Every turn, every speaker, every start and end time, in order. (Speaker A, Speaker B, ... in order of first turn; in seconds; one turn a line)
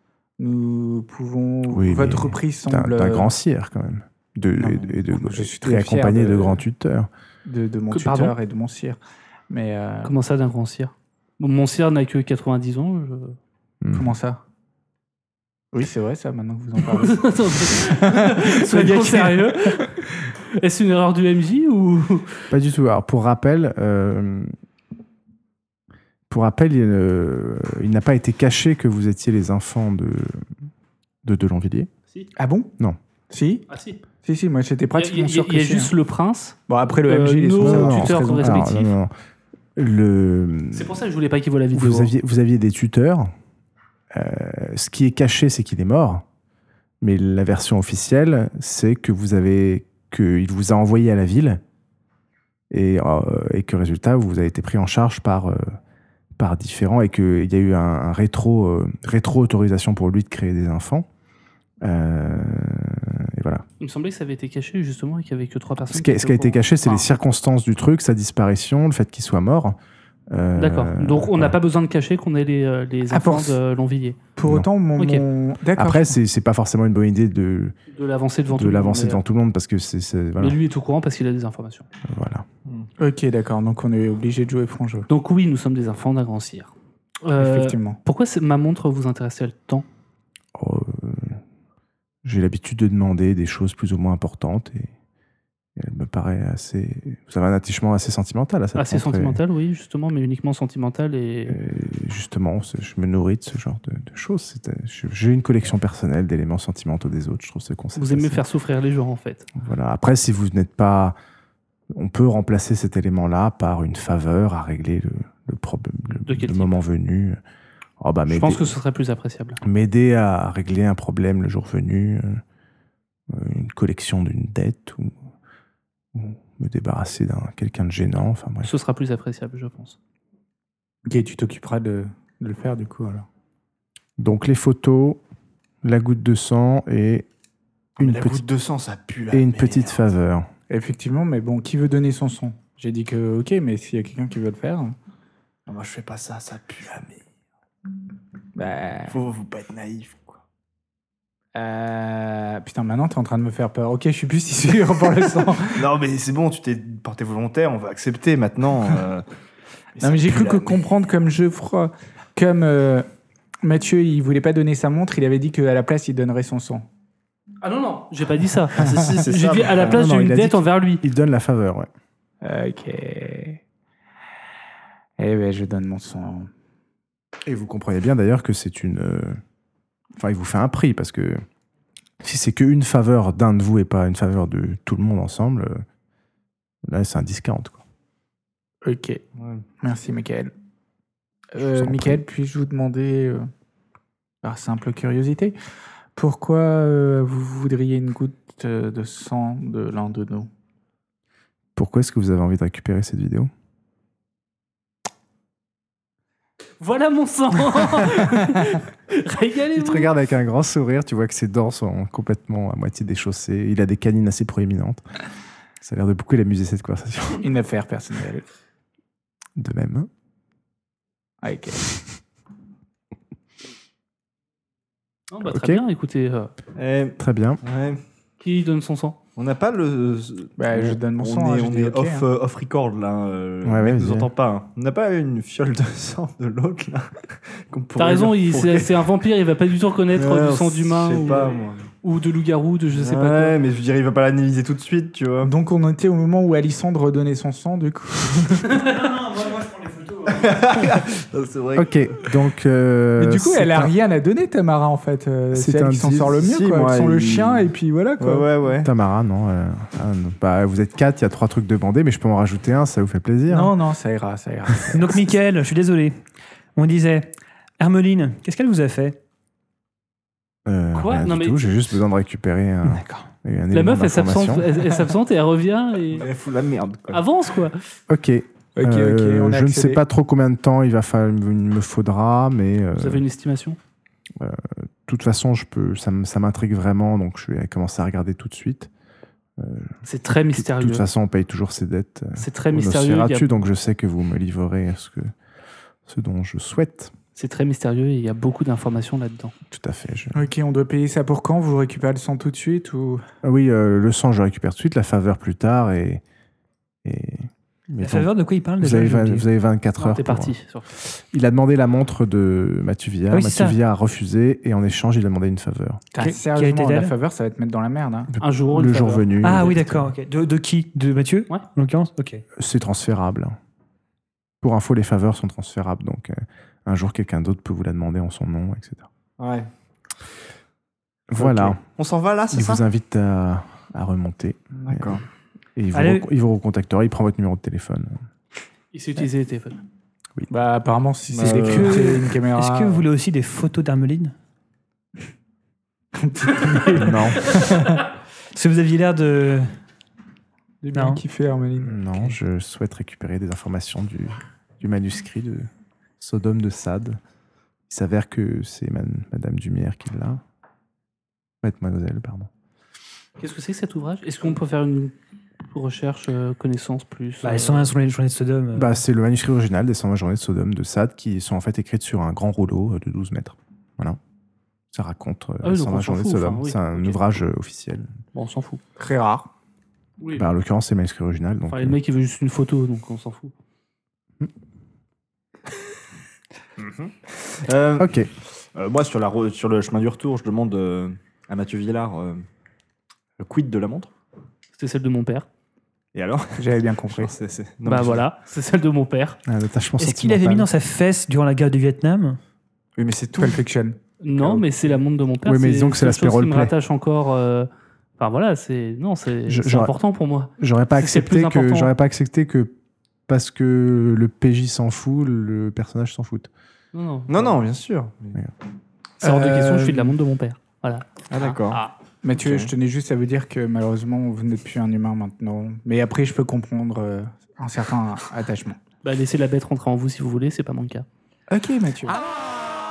Speaker A: 0.4-3.3
Speaker B: 1.7-7.1
Speaker A: 4.6-6.6
Speaker A: 7.5-9.0
Speaker C: 7.9-8.3
Speaker A: 9.5-10.1
Speaker C: 10.1-13.4
Speaker B: 13.8-14.1
Speaker A: 13.9-14.4
Speaker A: 15.7-19.8
Speaker C: 16.9-22.5
Speaker B: 22.5-24.5
Speaker B: 26.3-30.5
Speaker B: 31.2-31.9
Speaker A: 32.4-32.7
Speaker A: 33.3-33.6
Speaker C: 33.7-34.0
Speaker A: 34.2-35.9
Speaker C: 34.9-38.9
Speaker A: 36.7-38.8
Speaker B: 37.6-39.1
Speaker B: 39.8-41.0
Speaker C: 40.7-42.1
Speaker B: 41.7-43.3
Speaker B: 44.1-46.2
Speaker B: 47.0-51.6
Speaker B: 52.7-55.8
Speaker B: 56.4-61.1
Speaker B: 61.8-63.6
Speaker C: 63.8-67.1
Speaker B: 65.9-69.8
Speaker B: 70.3-71.6
Speaker C: 70.6-74.2
Speaker A: 73.1-73.6
Speaker A: 74.4-76.2
Speaker C: 75.0-75.2
Speaker B: 75.8-77.8
Speaker C: 77.9-79.2
Speaker B: 78.5-80.6
Speaker C: 80.4-81.9
Speaker B: 82.0-82.5
Speaker A: 83.0-85.1
Speaker C: 85.1-86.7
Speaker C: 87.2-89.9
Speaker A: 87.4-88.0
Speaker B: 90.5-91.4
Speaker B: 92.2-94.9
Speaker B: 95.8-99.4
Speaker C: 98.7-101.6
Speaker B: 101.5-108.4
Speaker C: 108.0-109.5
Speaker B: 109.6-111.2
Speaker B: 111.9-117.4
Speaker C: 116.3-116.8
Speaker B: 118.0-118.8
Speaker C: 118.3-119.6
Speaker B: 119.6-122.4
Speaker B: 123.3-125.2
Speaker B: 126.1-128.7
Speaker C: 128.6-130.0
Speaker A: 131.1-133.3
Speaker B: 134.2-135.2
Speaker B: 135.8-137.3
Speaker D: 138.0-140.1
Speaker B: 138.0-138.4
Speaker B: 139.3-140.5
Speaker A: 140.7-144.9
Speaker D: 145.7-147.2
Speaker A: 148.6-149.2
Speaker D: 149.1-150.4
Speaker A: 151.5-155.9
Speaker D: 155.7-159.2
Speaker D: 159.9-160.8
Speaker A: 160.0-163.1
Speaker A: 163.6-166.8
Speaker C: 167.6-171.0
Speaker D: 168.9-170.1
Speaker B: 169.8-171.9
Speaker A: 172.4-173.6
Speaker A: 175.2-176.5
Speaker B: 177.4-179.4
Speaker B: 180.2-181.4
Speaker B: 182.2-185.8
Speaker B: 186.8-187.8
Speaker A: 188.8-189.2
Speaker D: 189.4-189.6
Speaker A: 189.8-190.5
Speaker A: 191.5-193.5
Speaker B: 191.6-192.2
Speaker A: 194.4-195.6
Speaker A: 196.2-200.5
Speaker B: 201.8-203.5
Speaker C: 206.8-210.1
Speaker B: 209.7-215.0
Speaker B: 215.8-217.4
Speaker A: 217.4-218.4
Speaker B: 219.6-220.1
Speaker A: 221.4-222.0
Speaker C: 225.3-226.5
Speaker B: 225.4-225.8
Speaker D: 226.8-228.0
Speaker B: 227.2-227.6
Speaker C: 228.4-229.2
Speaker D: 229.4-238.9
Speaker A: 230.6-232.3
Speaker B: 233.6-234.3
Speaker C: 238.0-243.6
Speaker D: 240.2-241.9
Speaker D: 242.9-245.5
Speaker A: 245.4-248.8
Speaker E: 248.7-250.9
Speaker D: 250.3-251.9
Speaker B: 251.7-253.9
Speaker A: 253.2-258.5
Speaker B: 255.5-256.4
Speaker D: 256.4-257.7
Speaker D: 258.2-258.9
Speaker B: 258.8-263.7
Speaker A: 263.5-265.2
Speaker E: 264.9-266.2
Speaker E: 266.7-269.2
Speaker B: 270.6-274.8
Speaker C: 270.9-271.8
Speaker E: 272.9-273.3
Speaker C: 273.7-276.3
Speaker D: 276.1-277.3
Speaker C: 277.1-277.8
Speaker B: 278.1-283.2
Speaker A: 278.8-280.0
Speaker C: 283.0-283.8
Speaker B: 284.4-288.9
Speaker B: 289.6-290.0
Speaker C: 290.1-291.0
Speaker B: 290.5-295.3
Speaker C: 292.4-293.5
Speaker B: 296.1-297.1
Speaker C: 297.4-299.5
Speaker B: 299.7-300.4
Speaker A: 300.3-303.2
Speaker B: 303.4-306.2
Speaker B: 307.0-308.3
Speaker E: 308.0-309.4
Speaker B: 308.8-316.0
Speaker C: 310.0-310.9
Speaker E: 313.3-313.8
Speaker A: 316.1-318.3
Speaker E: 316.2-317.1
Speaker B: 318.3-320.1
Speaker C: 318.4-319.2
Speaker E: 319.4-322.4
Speaker B: 322.6-323.6
Speaker B: 324.6-329.1
Speaker D: 329.4-329.7
Speaker B: 331.3-331.8
Speaker D: 331.4-332.8
Speaker B: 332.5-335.2
Speaker D: 334.8-335.2
Speaker B: 335.8-338.2
Speaker E: 335.9-336.3
Speaker C: 338.9-339.8
Speaker A: 340.5-343.0
Speaker D: 341.3-342.1
Speaker E: 341.6-344.3
Speaker A: 346.1-348.0
Speaker B: 346.9-347.8
Speaker E: 348.5-349.8
Speaker A: 350.8-352.3
Speaker E: 350.9-351.2
Speaker B: 351.8-355.7
Speaker B: 356.2-357.2
Speaker B: 357.9-360.4
Speaker B: 361.6-362.5
Speaker C: 363.4-365.1
Speaker C: 365.7-367.9
Speaker E: 367.4-369.0
Speaker B: 368.7-374.2
Speaker B: 374.9-378.1
Speaker C: 375.6-377.2
Speaker C: 378.3-378.8
Speaker A: 379.0-379.5
Speaker C: 380.2-380.4
Speaker B: 380.4-382.0
Speaker C: 381.7-383.5
Speaker D: 386.8-392.4
Speaker B: 388.0-388.3
Speaker D: 393.4-394.1
Speaker C: 394.8-395.4
Speaker D: 396.1-398.3
Speaker A: 396.6-397.3
Speaker C: 397.9-399.4
Speaker B: 399.5-400.7
Speaker E: 400.0-402.4
Speaker D: 402.9-403.6
Speaker A: 403.4-404.0
Speaker C: 404.2-411.9
Speaker D: 404.4-404.7
Speaker B: 405.4-406.7
Speaker B: 409.5-409.9
Speaker B: 410.6-412.7
Speaker B: 413.3-416.5
Speaker C: 416.9-417.6
Speaker D: 417.3-418.4
Speaker C: 419.2-421.2
Speaker A: 419.2-420.1
Speaker D: 421.3-421.8
Speaker A: 421.4-428.8
Speaker D: 422.4-422.7
Speaker C: 429.0-431.1
Speaker A: 431.5-432.2